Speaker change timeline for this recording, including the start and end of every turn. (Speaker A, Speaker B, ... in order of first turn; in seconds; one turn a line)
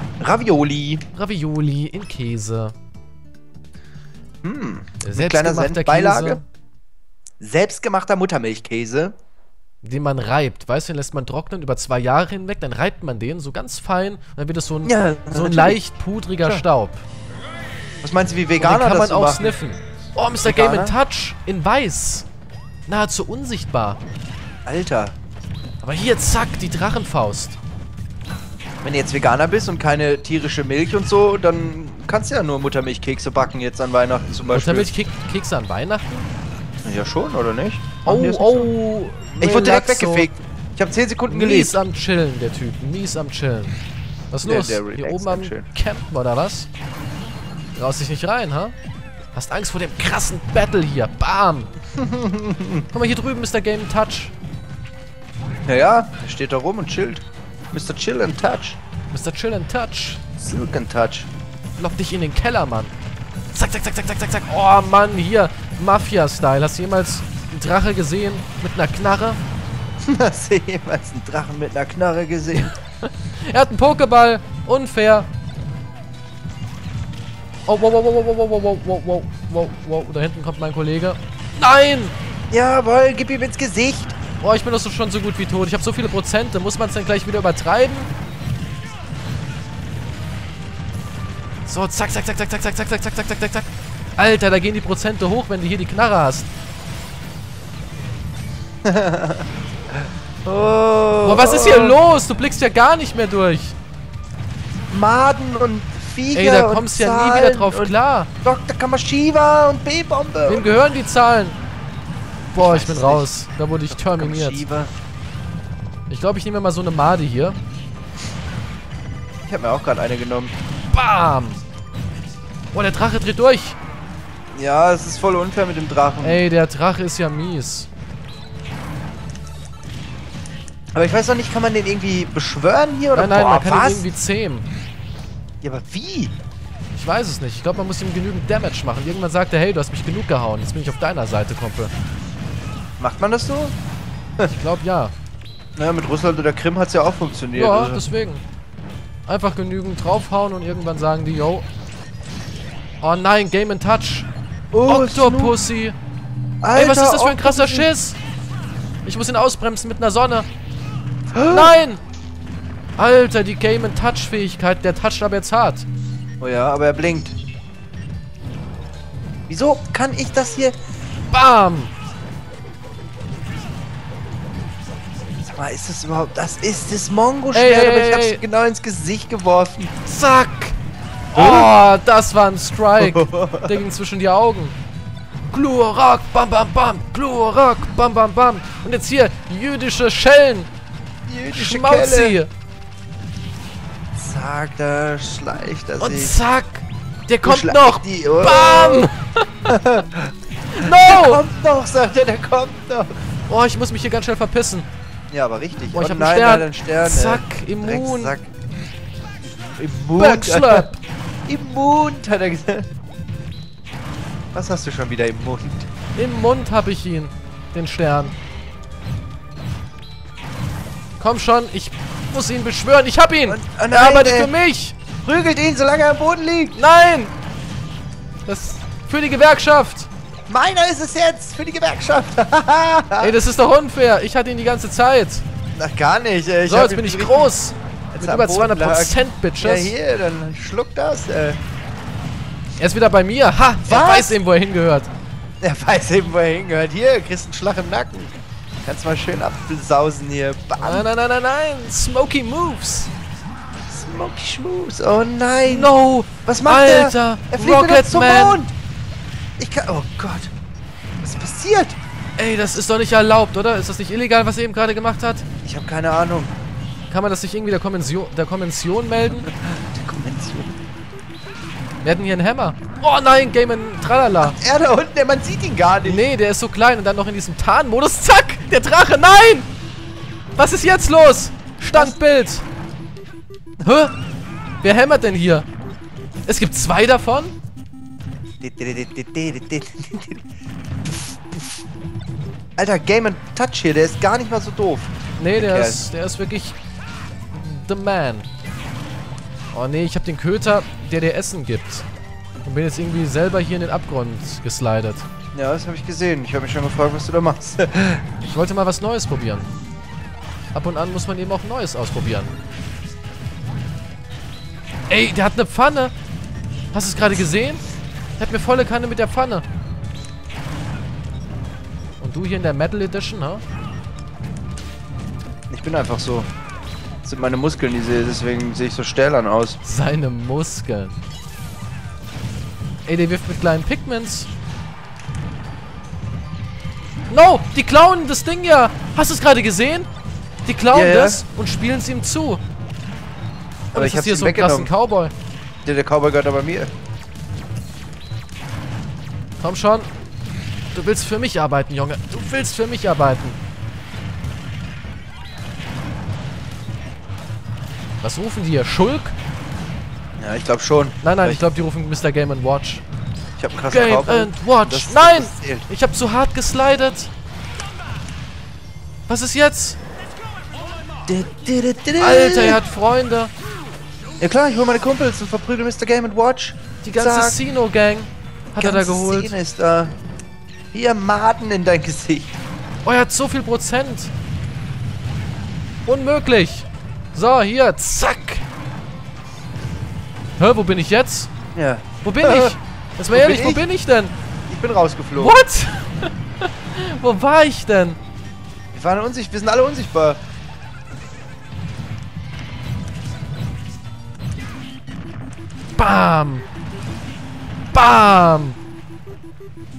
Speaker A: 0.2-1.0
Speaker B: 1.1-2.7
Speaker A: 4.4-6.4
Speaker B: 5.0-6.4
Speaker A: 7.4-9.1
Speaker B: 9.8-17.0
Speaker A: 14.8-15.8
Speaker A: 18.0-19.6
Speaker B: 18.6-22.3
Speaker A: 20.4-21.0
Speaker B: 22.9-24.0
Speaker A: 24.6-25.1
Speaker B: 25.8-27.6
Speaker A: 28.8-34.9
Speaker B: 34.5-36.3
Speaker A: 36.8-38.7
Speaker B: 38.0-40.3
Speaker A: 39.4-41.7
Speaker B: 41.3-43.8
Speaker B: 44.3-46.7
Speaker A: 44.4-45.6
Speaker B: 47.7-48.7
Speaker B: 49.3-51.7
Speaker A: 52.0-52.9
Speaker B: 52.9-54.3
Speaker A: 55.7-58.8
Speaker B: 59.1-60.2
Speaker A: 60.4-61.3
Speaker B: 61.8-62.9
Speaker B: 63.5-69.4
Speaker A: 70.0-72.7
Speaker B: 72.5-75.3
Speaker B: 77.7-82.1
Speaker A: 82.5-84.2
Speaker B: 84.4-88.1
Speaker B: 91.7-96.5
Speaker A: 98.8-99.5
Speaker A: 100.4-102.0
Speaker B: 101.2-103.8
Speaker A: 104.9-110.8
Speaker B: 106.3-108.3
Speaker B: 110.5-111.6
Speaker B: 112.5-114.6
Speaker A: 112.5-113.3
Speaker A: 113.9-114.9
Speaker B: 116.1-117.6
Speaker A: 119.5-120.5
Speaker B: 120.9-121.6
Speaker B: 122.7-123.8
Speaker A: 124.5-126.4
Speaker B: 126.2-127.9
Speaker A: 130.9-134.1
Speaker B: 133.1-134.7
Speaker A: 135.6-136.3
Speaker B: 136.9-141.9
Speaker A: 143.0-143.7
Speaker B: 144.4-145.1
Speaker A: 145.8-148.0
Speaker B: 147.5-148.4
Speaker B: 149.3-151.7
Speaker B: 153.0-154.3
Speaker A: 154.7-155.6
Speaker B: 154.8-155.9
Speaker A: 156.6-157.9
Speaker B: 156.7-158.2
Speaker B: 159.0-160.5
Speaker A: 161.3-161.8
Speaker B: 161.5-162.0
Speaker B: 163.0-165.8
Speaker A: 166.4-167.4
Speaker A: 169.5-170.7
Speaker B: 171.3-171.9
Speaker A: 175.4-179.9
Speaker B: 177.5-178.4
Speaker B: 180.0-180.8
Speaker B: 181.3-184.7
Speaker A: 181.3-181.7
Speaker A: 183.0-183.8
Speaker B: 185.5-190.7
Speaker A: 191.3-192.4
Speaker B: 191.5-192.5
Speaker A: 194.2-196.4
Speaker B: 196.0-199.3
Speaker A: 197.4-199.1
Speaker A: 199.7-200.3
Speaker B: 200.7-201.4
Speaker A: 201.0-203.1
Speaker B: 203.5-204.9
Speaker A: 205.3-208.5
Speaker B: 205.9-208.4
Speaker A: 209.8-210.9
Speaker B: 210.1-211.0
Speaker A: 211.4-212.9
Speaker A: 214.5-215.9
Speaker B: 216.2-218.3
Speaker B: 221.2-225.0
Speaker A: 223.5-224.5
Speaker A: 225.2-226.8
Speaker B: 226.7-227.3
Speaker B: 228.4-230.1
Speaker A: 230.5-233.3
Speaker B: 233.2-235.4
Speaker A: 235.7-237.5
Speaker B: 236.7-239.9
Speaker A: 238.1-241.6
Speaker B: 242.8-245.1
Speaker A: 243.8-244.3
Speaker A: 245.6-251.1
Speaker B: 250.8-253.1
Speaker A: 253.9-255.9
Speaker B: 255.6-258.6
Speaker A: 256.4-258.7
Speaker A: 259.6-260.5
Speaker A: 261.2-262.0
Speaker B: 262.4-265.4
Speaker A: 265.6-266.5
Speaker B: 267.1-269.5
Speaker A: 269.5-270.8
Speaker B: 272.0-274.6
Speaker A: 274.4-276.3
Speaker B: 276.0-279.7
Speaker B: 280.6-282.6
Speaker B: 283.8-284.1
Speaker B: 284.8-285.6
Speaker B: 286.5-287.5
Speaker A: 288.6-290.4
Speaker A: 292.8-296.0
Speaker B: 295.4-296.8
Speaker B: 297.5-298.4
Speaker B: 299.7-302.1
Speaker B: 302.6-305.2
Speaker A: 305.5-308.2
Speaker B: 308.5-309.7
Speaker B: 310.7-312.5
Speaker B: 315.1-316.1
Speaker B: 316.9-317.8
Speaker B: 318.4-319.6
Speaker B: 322.2-323.6
Speaker A: 325.7-326.5
Speaker A: 327.2-329.8
Speaker B: 329.8-331.1
Speaker B: 333.1-334.5
Speaker B: 337.3-340.1
Speaker B: 340.6-342.6
Speaker A: 340.9-341.4
Speaker A: 343.9-344.9
Speaker B: 343.9-345.3
Speaker A: 345.8-346.9
Speaker B: 349.6-350.1
Speaker B: 350.9-353.6
Speaker B: 358.2-359.3
Speaker A: 360.4-361.6
Speaker B: 361.2-363.0
Speaker A: 363.6-365.9
Speaker B: 363.9-367.3
Speaker B: 369.3-370.0
Speaker A: 371.3-372.8
Speaker B: 372.2-373.5
Speaker A: 374.4-377.6
Speaker B: 377.0-379.5
Speaker A: 378.8-380.1
Speaker A: 380.9-382.5
Speaker B: 383.0-384.3
Speaker B: 386.1-388.6
Speaker B: 390.6-391.5
Speaker A: 391.7-392.8
Speaker B: 392.2-394.3
Speaker A: 393.3-393.8
Speaker A: 394.7-395.6
Speaker B: 395.4-398.2
Speaker A: 398.9-400.4
Speaker B: 405.9-406.6
Speaker B: 407.9-408.8